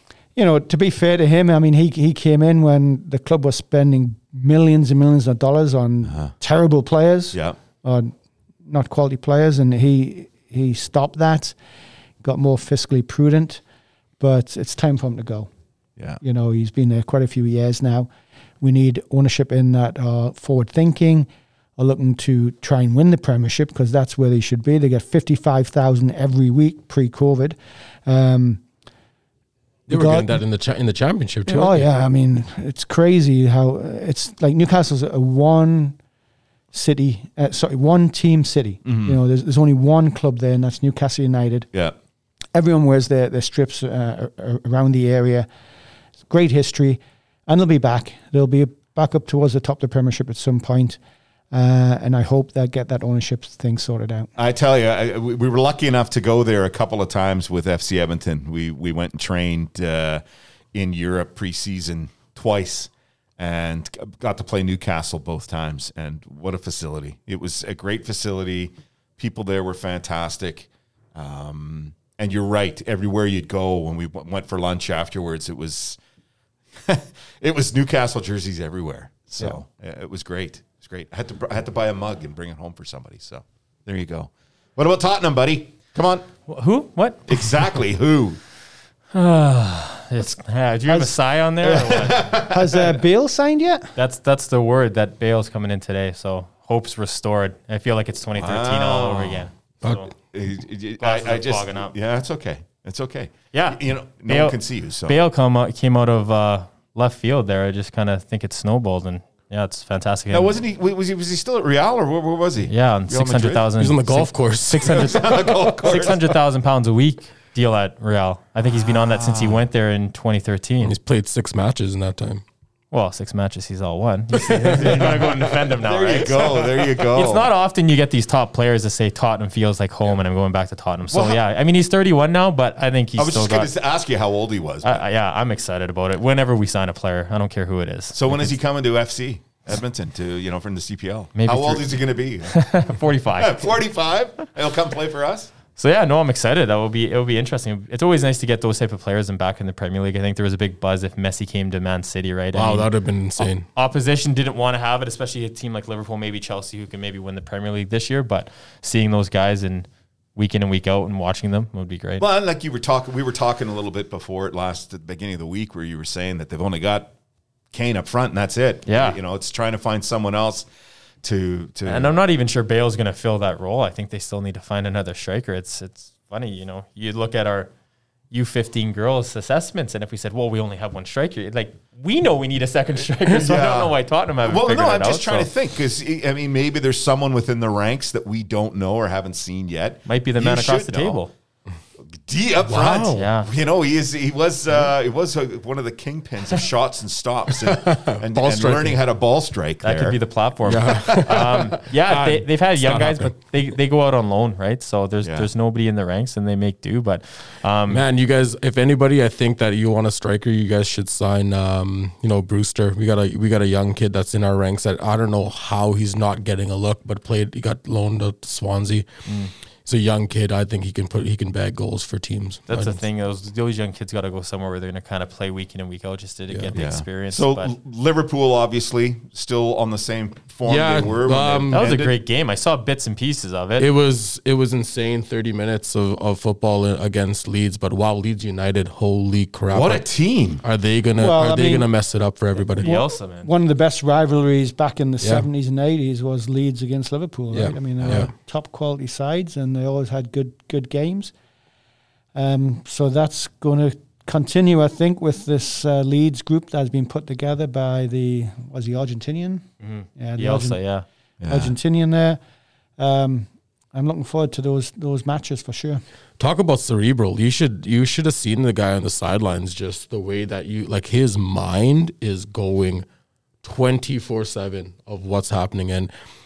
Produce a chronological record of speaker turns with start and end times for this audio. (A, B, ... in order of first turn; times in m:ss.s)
0:00.3-0:08.1 A
0:06.1-0:06.3 B
0:08.6-0:11.6 A
0:12.2-0:13.6 A
0:14.2-0:15.5 A
0:16.2-0:18.1 A
0:18.6-0:28.6 A
0:29.9-0:30.4 A
0:29.9-0:31.9 C
0:31.4-0:36.0 A
0:36.7-0:41.7 A
0:38.8-0:39.2 B
0:42.5-0:45.5 A
0:46.3-0:51.0 A
0:51.5-0:54.3 A
0:54.4-1:00.2 B
1:00.7-1:16.0 B
1:16.8-1:26.3 B
1:26.5-1:27.7 D
1:27.3-1:28.4 B
1:29.1-1:32.4 D
1:31.6-1:33.0 B
1:32.4-1:33.9 A
1:34.0-1:40.1 D
1:38.4-1:39.5 B
1:40.2-1:45.2 B
1:41.0-1:41.9 D
1:43.5-1:50.5 D
1:50.3-1:53.7 B
1:52.7-2:00.9 D
1:53.8-1:55.8 C
1:54.8-1:56.2 B
1:58.6-1:59.6 B
2:00.8-2:02.4 C
2:02.9-2:13.7 D
2:04.4-2:05.3 C
2:04.7-2:07.5 B
2:11.1-2:11.4 B
2:13.2-2:15.0 B
2:14.8-2:18.6 D
2:18.1-2:25.5 B
2:21.4-2:23.8 D
2:25.8-2:42.2 D
2:32.5-2:33.6 C
2:42.2-2:47.1 B
2:47.7-2:50.7 B
2:48.9-2:49.2 D
2:51.2-2:52.1 B
2:51.8-2:57.7 D
2:58.3-3:05.5 D
3:03.3-3:03.9 B
3:04.4-3:11.2 B
3:10.0-3:11.3 D
3:12.2-3:20.2 B
3:12.7-3:13.3 C
3:13.1-3:13.5 D
3:17.6-3:19.0 C
3:19.8-3:28.0 D
3:20.6-3:23.3 C
3:21.1-3:21.6 B
3:27.9-3:39.2 C
3:39.3-3:39.5 D
3:39.8-3:43.0 C
3:42.7-3:47.7 D
3:46.7-3:52.1 B
3:50.6-3:51.9 C
3:51.7-3:53.9 D
3:53.8-4:00.0 C
3:59.7-4:00.6 B
4:00.6-4:03.0 C
4:01.2-4:01.9 A
4:02.8-4:03.5 D
4:02.8-4:11.3 A
4:05.2-4:05.5 C
4:07.5-4:08.3 C
4:12.3-4:20.8 A
4:19.8-4:21.0 D
4:21.4-4:21.7 B
4:21.5-4:22.4 A
4:23.0-4:26.0 A
4:26.4-4:33.0 C
4:33.6-4:36.1 C